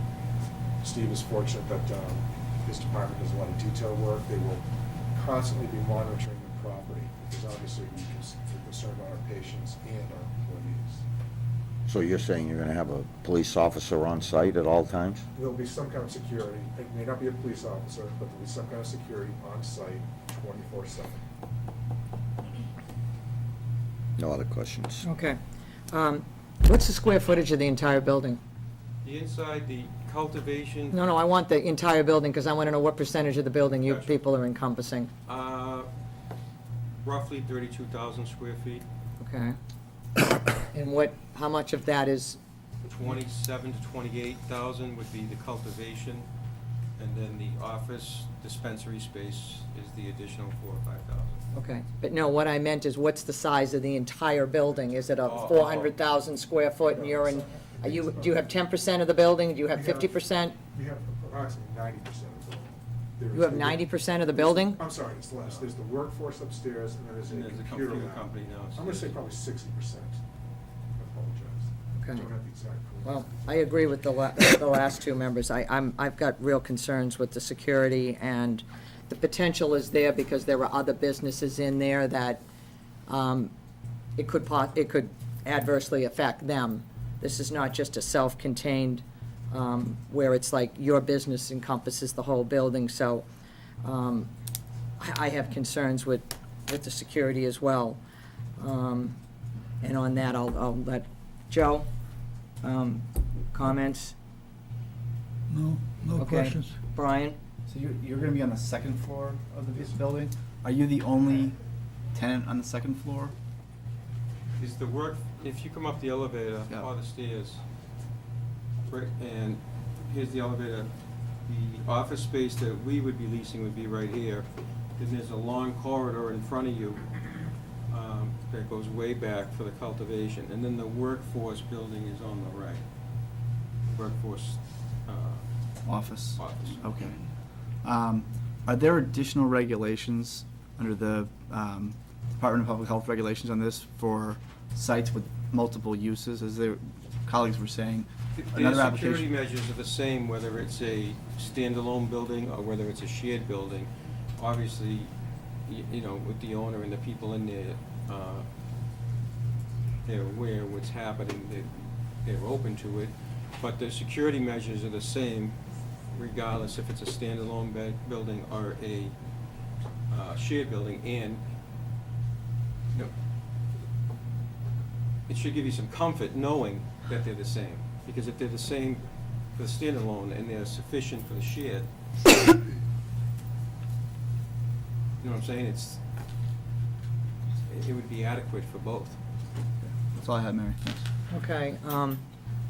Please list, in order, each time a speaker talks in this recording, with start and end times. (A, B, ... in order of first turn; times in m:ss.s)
0:00.8-0:11.0 A
0:11.9-0:15.2 B
0:15.3-0:21.2 A
0:24.2-0:25.0 B
0:25.0-0:25.4 C
0:25.9-0:28.4 C
0:29.0-0:31.0 D
0:30.9-0:35.1 C
0:33.7-0:34.2 D
0:35.2-0:35.9 D
0:37.0-0:38.8 D
0:39.2-0:39.6 C
0:40.7-0:42.4 C
0:42.8-0:46.3 D
0:47.0-0:51.4 D
0:51.5-1:00.6 C
0:55.2-0:56.0 D
0:56.8-0:58.4 A
0:59.7-1:10.2 A
1:03.3-1:04.8 C
1:07.3-1:09.1 D
1:11.0-1:13.6 A
1:12.0-1:12.3 C
1:13.0-1:22.4 C
1:23.1-1:23.5 C
1:24.2-1:33.3 C
1:33.8-1:34.3 C
1:35.0-1:38.0 C
1:38.6-1:39.2 C
1:39.8-1:41.9 C
1:42.6-1:44.2 C
1:46.2-1:47.4 C
1:47.7-1:51.6 E
1:52.1-1:53.3 E
1:54.6-1:57.6 D
1:58.8-2:00.9 D
2:01.4-2:07.1 D
2:07.9-2:12.8 D
2:13.8-2:15.5 D
2:15.8-2:17.3 E
2:16.3-2:16.8 D
2:17.8-2:29.3 E
2:28.4-2:35.1 D
2:35.7-2:38.5 D
2:40.0-2:45.6 D
2:46.1-2:49.1 D
2:50.1-2:51.4 D
2:55.3-3:01.9 D
3:05.2-3:06.0 D
3:07.6-3:09.2 D
3:09.8-3:11.0 E
3:11.3-3:12.2 C